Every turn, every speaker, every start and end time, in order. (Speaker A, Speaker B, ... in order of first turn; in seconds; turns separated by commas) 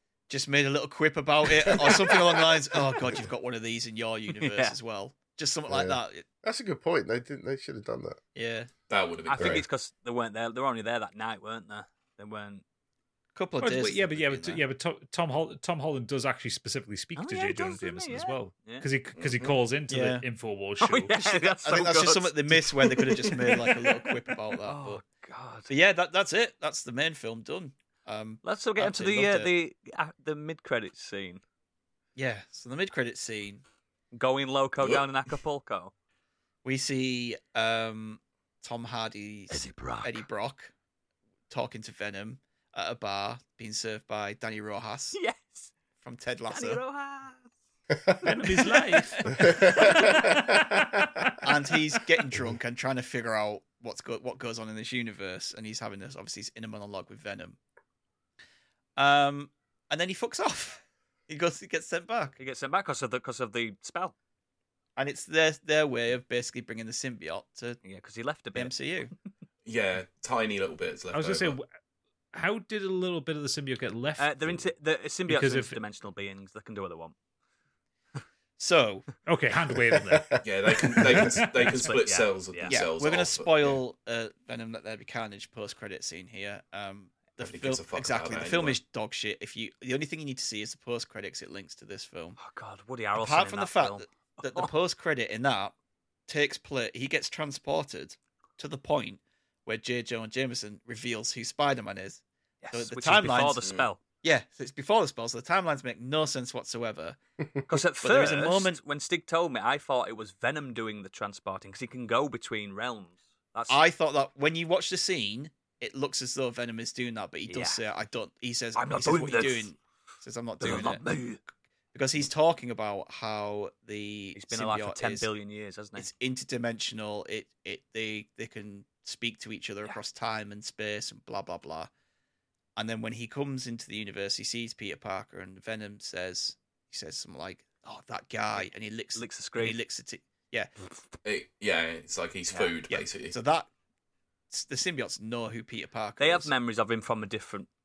Speaker A: 0.3-6.2, Speaker B: 4.3-4.8, Speaker C: 5.7-8.2, Speaker A: 8.3-8.7, Speaker D: 8.9-9.7, Speaker B: 9.3-12.6, Speaker C: 9.4-9.6, Speaker A: 13.3-14.6, Speaker E: 13.6-21.2, Speaker B: 17.2-18.9, Speaker D: 19.2-19.6, Speaker A: 19.9-20.3, Speaker B: 20.8-24.1, Speaker A: 21.2-25.0, Speaker B: 24.6-25.7, Speaker A: 25.7-29.5, Speaker B: 28.4-31.4, Speaker A: 32.2-33.6, Speaker B: 34.1-35.9, Speaker A: 36.6-40.7, Speaker B: 39.5-40.2, Speaker A: 41.5-45.2, Speaker B: 45.1-45.7, Speaker A: 46.0-46.8, Speaker B: 46.5-47.5, Speaker E: 48.2-51.4, Speaker A: 48.3-50.1, Speaker C: 49.3-51.3, Speaker A: 51.4-57.6, Speaker A: 59.0-62.4, Speaker B: 62.4-64.1, Speaker A: 65.0-67.8, Speaker B: 67.8-68.7, Speaker A: 68.5-69.1, Speaker D: 69.7-71.6, Speaker E: 71.1-71.7, Speaker E: 72.3-74.7, Speaker B: 74.2-77.1, Speaker E: 75.3-75.8, Speaker A: 78.6-79.1, Speaker E: 79.2-81.9, Speaker C: 79.9-80.4, Speaker D: 80.4-83.8, Speaker B: 81.7-82.8, Speaker A: 82.7-92.4, Speaker D: 87.4-88.8, Speaker B: 92.4-94.7, Speaker A: 93.2-95.8, Speaker A: 96.3-102.2, Speaker B: 102.6-104.0, Speaker A: 102.7-103.6, Speaker A: 104.2-107.2, Speaker B: 107.7-113.8, Speaker A: 108.0-108.8, Speaker A: 113.7-121.0, Speaker B: 117.5-117.8, Speaker B: 118.8-119.7, Speaker B: 120.6-121.4, Speaker A: 121.9-125.3, Speaker B: 124.3-126.1, Speaker A: 126.0-131.9, Speaker A: 132.8-140.7, Speaker B: 138.6-139.8, Speaker D: 141.2-143.3, Speaker A: 142.5-143.7, Speaker A: 144.5-146.5, Speaker B: 146.2-147.7